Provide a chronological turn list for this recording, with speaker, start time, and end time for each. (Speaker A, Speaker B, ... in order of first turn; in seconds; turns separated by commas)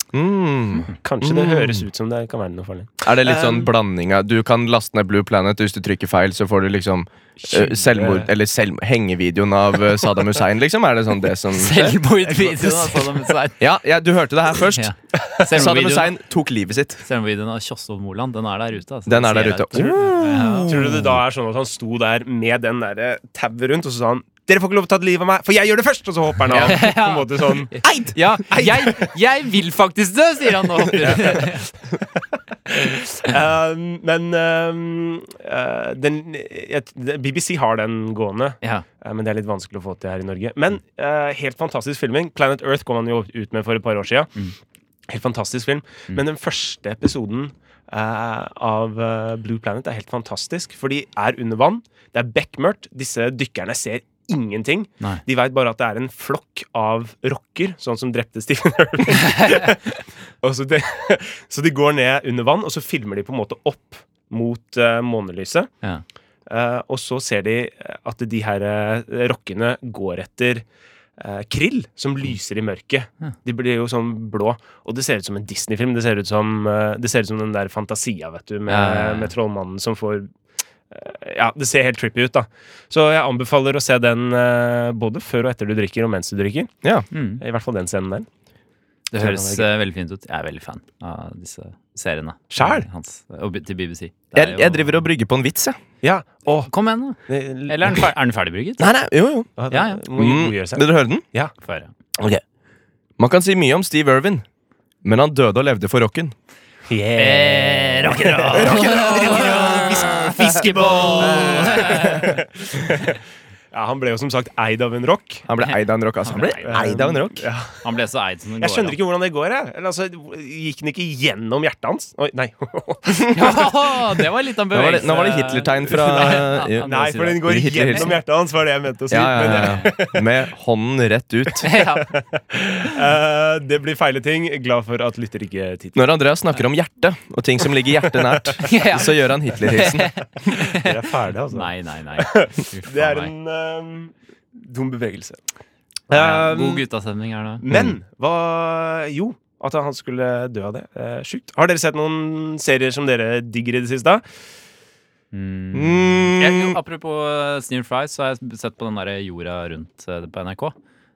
Speaker A: 0.1-1.8, Speaker B: 1.0-3.7, Speaker A: 3.0-12.0, Speaker B: 7.4-8.3, Speaker C: 11.5-13.6, Speaker B: 12.3-13.2, Speaker A: 13.6-14.9, Speaker C: 14.7-16.1, Speaker A: 15.5-17.0, Speaker C: 17.0-20.7, Speaker A: 19.1-21.2, Speaker B: 20.7-29.1, Speaker C: 26.6-31.6, Speaker B: 30.8-31.5, Speaker B: 32.7-44.3, Speaker B: 45.1-65.7, Speaker C: 59.3-59.6, Speaker B: 66.5-70.6, Speaker B: 71.2-80.3, Speaker C: 78.7-79.3, Speaker B: 80.9-86.7, Speaker C: 87.1-87.4, Speaker B: 87.4-88.3, Speaker C: 89.1-95.0, Speaker B: 89.2-89.7, Speaker B: 92.5-92.8, Speaker A: 94.3-95.8, Speaker B: 96.0-96.7, Speaker C: 96.7-98.9, Speaker B: 97.3-98.0, Speaker A: 98.8-99.5, Speaker B: 99.6-101.5, Speaker C: 99.7-100.0, Speaker A: 100.1-101.2, Speaker C: 101.6-101.9, Speaker A: 103.2-104.4, Speaker A: 105.0-106.3, Speaker B: 106.9-113.2, Speaker C: 107.2-112.3, Speaker A: 108.5-109.8, Speaker A: 110.8-112.1, Speaker B: 113.7-115.4, Speaker A: 115.5-117.4, Speaker C: 115.6-116.8, Speaker B: 116.6-117.8, Speaker C: 117.8-119.0, Speaker B: 118.6-123.7, Speaker C: 123.2-128.1, Speaker A: 124.7-126.9, Speaker B: 126.0-130.3, Speaker A: 127.4-128.2, Speaker A: 129.1-131.7, Speaker C: 129.5-129.9, Speaker C: 131.6-132.1, Speaker B: 132.1-136.0, Speaker A: 135.9-140.3, Speaker B: 138.0-138.8, Speaker C: 138.6-140.9, Speaker B: 140.7-145.4, Speaker C: 141.5-143.3, Speaker B: 146.1-146.8, Speaker C: 146.1-147.6, Speaker B: 147.6-154.2, Speaker A: 147.7-148.0, Speaker C: 155.3-160.7, Speaker A: 155.7-156.8